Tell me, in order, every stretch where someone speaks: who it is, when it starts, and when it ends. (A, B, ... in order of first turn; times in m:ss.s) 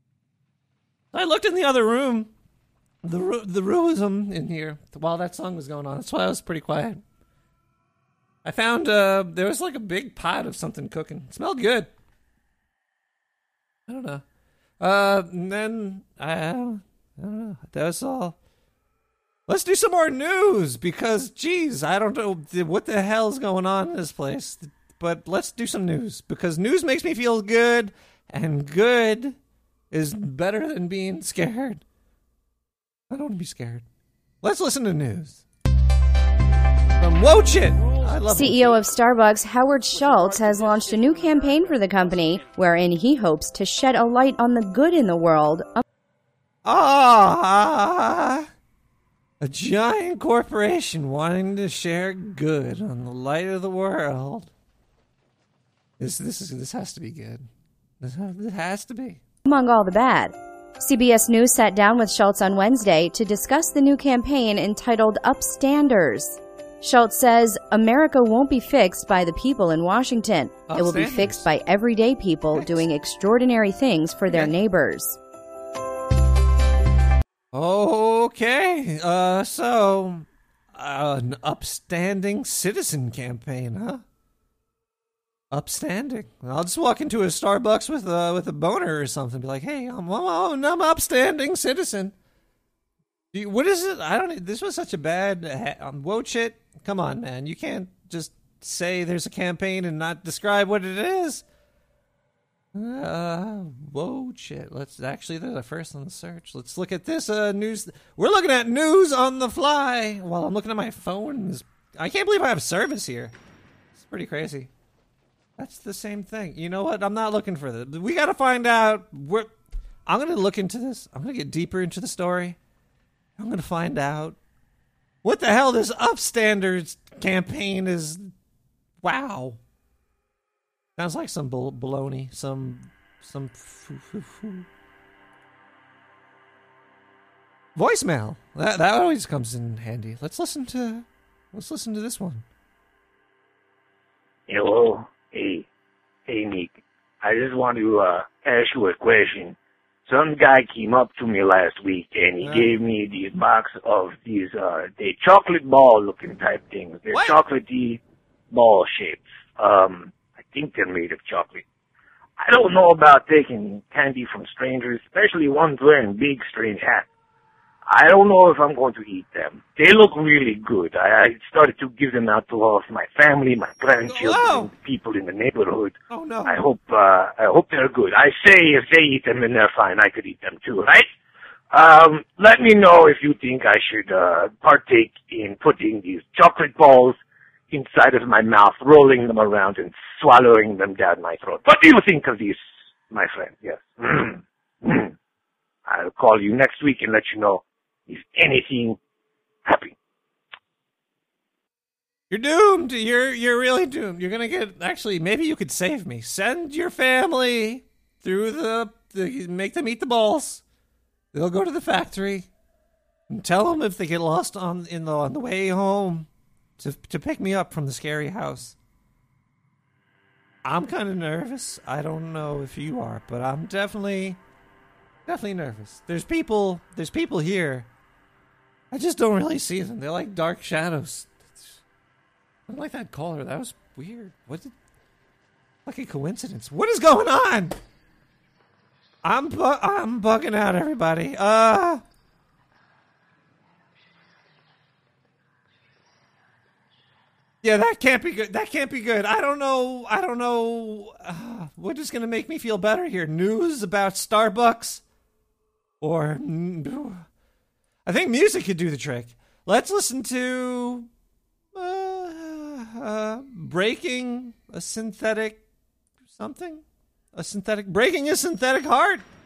0:01.1-0:02.3 A
0:03.0-0:07.0 A
0:08.4-0:11.9 A
0:13.9-0:14.2 A
0:14.8-0:18.4 A
0:19.5-0:29.4 A
0:29.9-0:31.8 A
0:33.1-0:33.8 A
0:34.4-0:35.4 A
0:37.0-0:38.7 A
0:38.2-0:45.8 B
0:46.6-0:48.5 A
0:49.4-0:54.5 A
0:56.0-0:57.5 A
0:58.0-0:59.2 A
0:59.5-1:15.2 B
1:10.7-1:11.5 A
1:12.5-1:12.9 A
1:14.3-1:14.5 A
1:17.5-1:24.0 A
1:25.5-1:32.1 A
1:33.3-1:41.4 A
1:42.7-1:53.4 A
1:54.0-1:54.7 A
1:55.6-1:59.5 A
2:00.1-2:02.6 A
2:03.4-2:04.4 A
2:05.2-2:08.3 A
2:09.0-2:09.6 A
2:11.0-2:14.7 A
2:17.8-2:22.4 A
2:24.5-2:25.7 C
2:26.3-2:29.6 C
2:30.1-2:41.6 C
2:32.4-2:32.8 A
2:37.1-2:37.4 A
2:42.4-2:47.1 C
2:47.9-3:01.1 C
2:54.1-2:54.7 A
2:56.1-2:56.6 A
3:01.7-3:07.2 C
3:07.7-3:15.1 C
3:15.9-3:19.0 C
3:19.7-3:19.9 C
3:22.3-3:30.6 A
3:31.3-3:32.5 A
3:33.3-3:36.3 A
3:36.8-3:38.8 A
3:40.6-3:44.4 A
3:45.3-3:47.9 A
3:48.9-3:51.8 A
3:52.7-3:54.7 A
3:55.9-3:57.8 A
3:59.2-4:02.0 A
4:07.6-4:15.0 A
4:16.0-4:17.2 A
4:18.1-4:21.1 A
4:21.8-4:25.6 A
4:26.3-4:26.8 A
4:27.4-4:29.3 A